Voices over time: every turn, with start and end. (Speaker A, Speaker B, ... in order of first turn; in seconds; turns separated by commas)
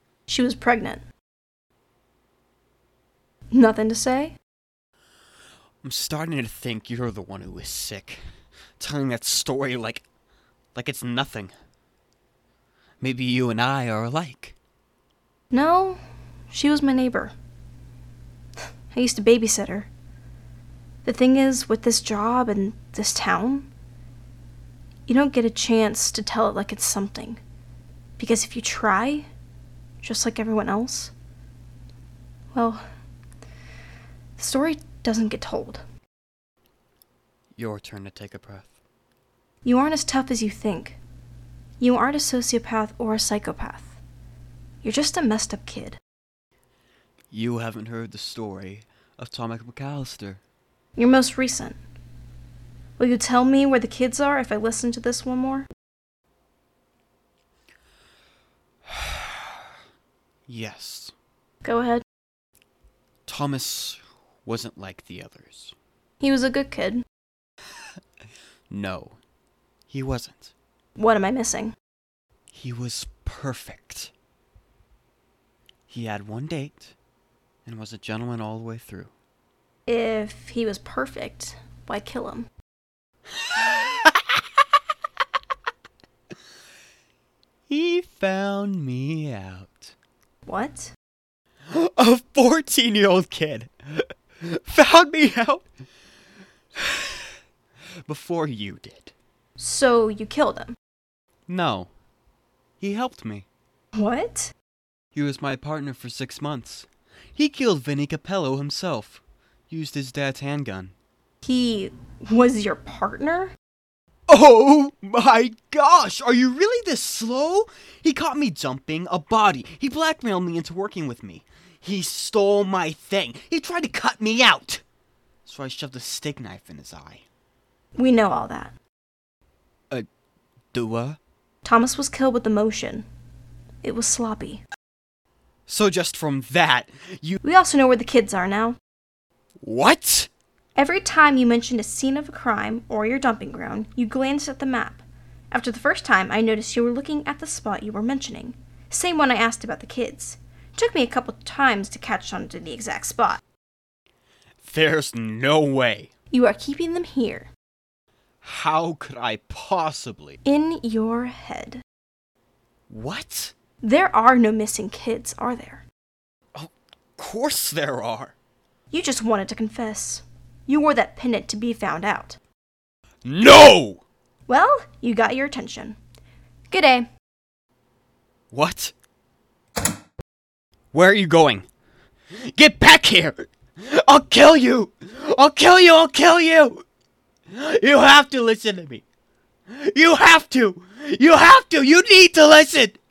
Speaker A: 0.3-1.0, Speaker A: 3.5-4.4, Speaker B: 5.8-8.2, Speaker B: 8.8-10.0, Speaker B: 10.8-11.5, Speaker B: 13.0-14.6, Speaker A: 15.5-16.0, Speaker A: 16.5-17.3, Speaker A: 18.9-19.9, Speaker A: 21.1-23.7, Speaker A: 25.1-27.4, Speaker A: 28.2-29.3, Speaker A: 30.0-31.1, Speaker A: 32.5-32.8, Speaker A: 34.4-35.8, Speaker B: 37.6-38.7, Speaker A: 39.6-41.0, Speaker A: 41.8-44.0, Speaker A: 44.8-46.0, Speaker B: 47.3-50.4, Speaker A: 51.0-51.8, Speaker A: 53.0-55.7, Speaker B: 58.9-59.3, Speaker B: 60.5-61.1, Speaker A: 61.6-62.0, Speaker B: 63.3-65.8, Speaker A: 66.2-67.0, Speaker B: 68.7-69.2, Speaker B: 69.9-70.5, Speaker A: 71.0-71.7, Speaker B: 72.5-74.1, Speaker B: 75.9-77.0, Speaker B: 77.7-79.1, Speaker A: 79.9-82.5, Speaker B: 83.4-84.2, Speaker B: 87.7-89.9, Speaker A: 90.5-90.9, Speaker B: 91.7-95.7, Speaker B: 96.8-97.1, Speaker B: 98.1-99.1, Speaker A: 99.6-100.8, Speaker B: 101.5-101.9, Speaker B: 102.8-103.5, Speaker A: 104.0-104.5, Speaker B: 105.1-110.9, Speaker A: 111.4-113.5, Speaker B: 114.3-124.8, Speaker B: 125.5-127.2, Speaker A: 128.0-128.7, Speaker B: 130.7-131.2, Speaker A: 131.6-133.1, Speaker A: 133.8-134.6, Speaker B: 135.7-137.4, Speaker A: 137.4-138.8, Speaker B: 139.6-140.3, Speaker A: 140.8-153.4, Speaker B: 154.6-156.1, Speaker A: 156.3-157.5, Speaker B: 158.4-160.4, Speaker A: 160.4-161.8, Speaker B: 162.9-163.5, Speaker A: 163.8-165.8, Speaker B: 166.6-168.3, Speaker A: 168.9-172.4, Speaker B: 173.2-174.0, Speaker A: 174.5-176.0, Speaker A: 176.7-177.1, Speaker B: 178.5-178.9, Speaker B: 180.9-181.7, Speaker B: 182.3-186.8, Speaker B: 187.5-189.0, Speaker B: 189.7-193.0